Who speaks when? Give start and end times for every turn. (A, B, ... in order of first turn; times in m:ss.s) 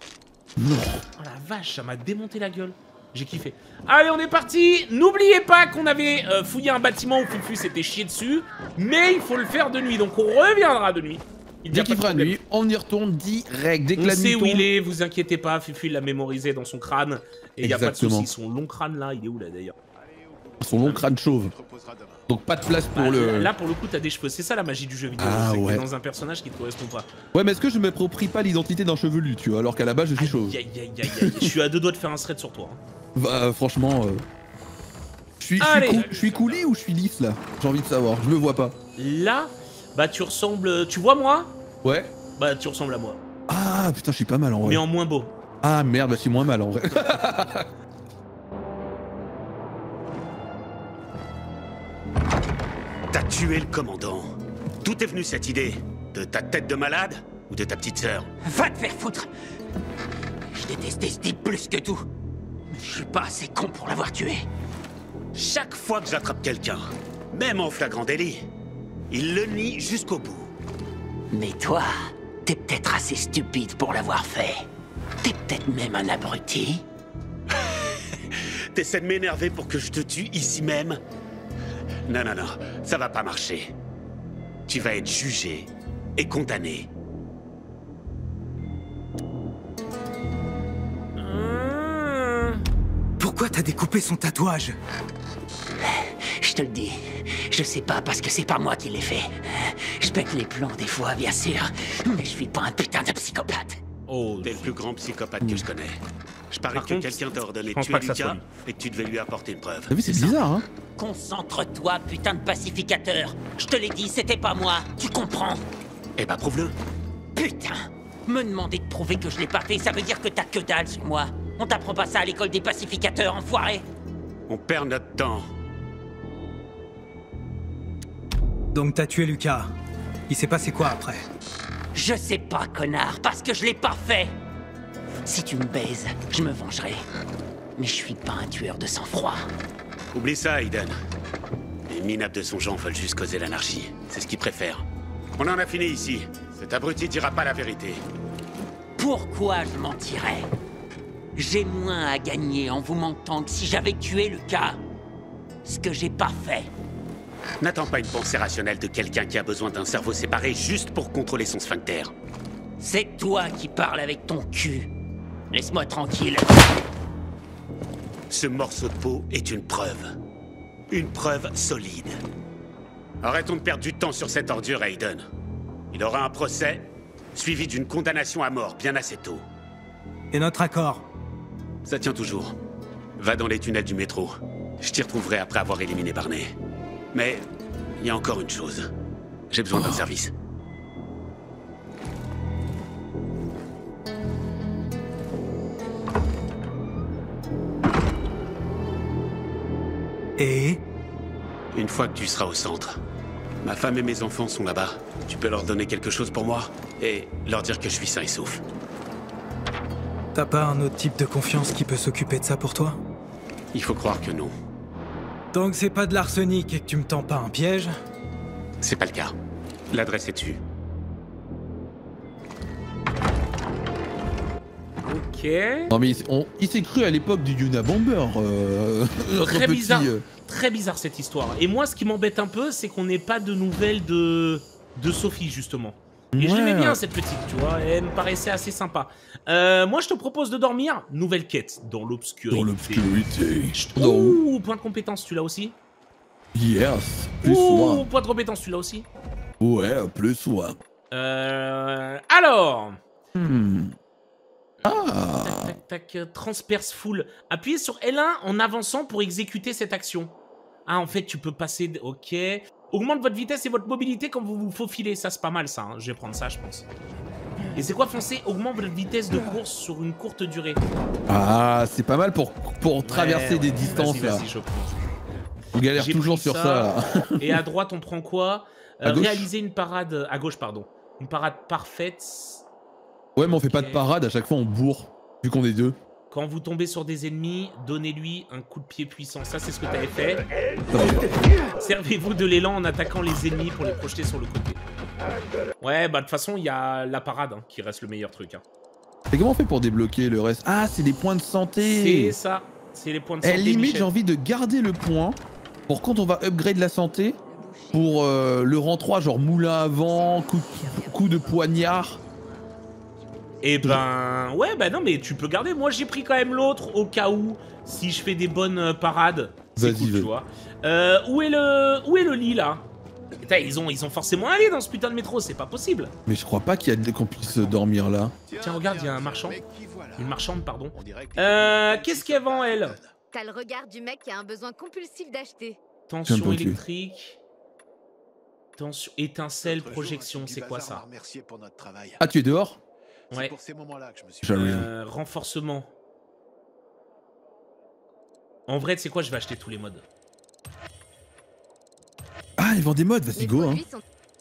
0:00.6-0:01.0 A
0:01.2-0:12.4 B
0:11.7-0:14.7 A
0:14.0-0:19.8 B
0:17.6-0:18.3 A
0:20.0-0:22.2 C
0:20.6-0:21.5 A
0:22.3-0:23.5 A
0:22.9-0:27.1 B
0:25.2-0:25.9 A
0:27.3-0:31.5 A
0:30.2-0:32.8 B
0:33.2-0:34.2 A
0:35.4-0:38.8 A
0:35.6-0:36.7 B
0:39.0-0:41.5 B
0:41.8-0:42.1 A
0:42.4-0:43.2 B
0:43.5-0:44.8 A
0:44.6-0:45.3 B
0:45.6-0:47.7 A
0:53.1-0:54.3 D
0:54.8-0:58.3 D
0:58.4-0:59.3 E
1:00.5-1:02.0 E
1:02.7-1:04.5 E
1:05.4-1:08.4 D
1:09.1-1:10.5 D
1:11.3-1:11.9 E
1:12.4-1:14.7 E
1:15.2-1:16.8 E
1:18.7-1:21.0 D
1:22.1-1:23.7 D
1:24.7-1:26.9 D
1:31.2-1:32.6 B
1:33.2-1:34.8 F
1:35.8-1:43.8 E
1:44.1-1:44.8 B
1:44.4-1:46.0 D
1:46.5-1:50.4 D
1:46.7-1:48.4 B
1:49.9-1:50.7 A
1:51.0-1:55.6 E
1:56.2-1:56.7 D
1:57.4-2:03.9 E
2:04.5-2:05.5 D
2:08.7-2:09.7 F
2:10.3-2:11.2 F
2:11.9-2:14.4 E
2:15.2-2:17.0 E
2:17.8-2:19.5 E
2:20.1-2:21.0 D
2:21.9-2:24.8 D
2:25.4-2:28.0 D
2:29.0-2:30.5 E
2:31.4-2:34.8 E
2:35.6-2:36.7 E
2:37.6-2:42.1 D
2:42.8-2:44.9 E
2:45.5-2:46.7 E
2:48.3-2:50.1 D
2:50.9-2:52.2 D
2:53.2-2:55.2 D
2:55.9-2:59.4 D
3:00.3-3:01.1 F
3:01.8-3:02.6 D
3:03.2-3:06.5 D
3:07.1-3:07.4 D
3:08.0-3:08.9 D
3:09.5-3:10.3 D
3:20.4-3:20.8 F
3:21.7-3:23.0 D
3:23.6-3:28.6 D
3:30.3-3:33.0 F
3:33.7-3:34.5 D
3:35.5-3:37.9 F
3:38.8-3:39.4 D
3:39.9-3:40.6 D
3:45.0-3:45.9 B
3:45.9-3:50.2 A
3:49.4-4:03.1 B
3:56.3-3:57.0 A
4:02.5-4:04.4 A
4:03.7-4:05.8 B
4:06.5-4:08.1 A
4:07.4-4:09.1 B
4:09.6-4:10.8 A
4:11.1-4:13.0 B
4:13.4-4:14.0 A
4:14.8-4:15.8 A
4:14.8-4:20.3 B
4:20.9-4:26.9 B
4:27.8-4:30.8 B
4:31.3-4:34.5 A
4:33.0-4:35.1 B
4:35.7-4:37.6 A
4:36.0-4:42.7 B
4:39.0-4:39.5 A
4:43.4-4:46.0 A
4:43.7-4:44.0 B
4:46.3-4:50.4 B
4:50.9-4:51.3 A
4:51.8-4:54.8 B
4:55.8-4:58.6 B
4:59.3-5:02.4 A
5:01.8-5:04.1 B
5:03.4-5:07.4 A
5:07.5-5:08.3 G
5:07.9-5:12.2 A
5:09.9-5:12.7 G
5:13.3-5:13.8 G
5:13.6-5:22.8 B
5:19.8-5:20.3 A
5:23.4-5:26.1 B
5:26.3-5:28.4 A
5:27.5-5:27.8 C
5:28.5-5:33.1 C
5:28.6-5:29.6 B
5:30.2-5:33.0 B
5:33.3-5:35.8 G
5:36.1-5:37.4 B
5:36.3-5:36.8 A
5:38.8-5:41.0 B
5:39.6-5:42.2 C
5:42.2-5:42.8 A
5:43.3-5:44.8 C
5:44.4-5:44.9 A
5:44.5-5:45.9 B
5:48.7-5:50.1 B
5:52.6-5:53.8 A
5:53.4-5:54.0 G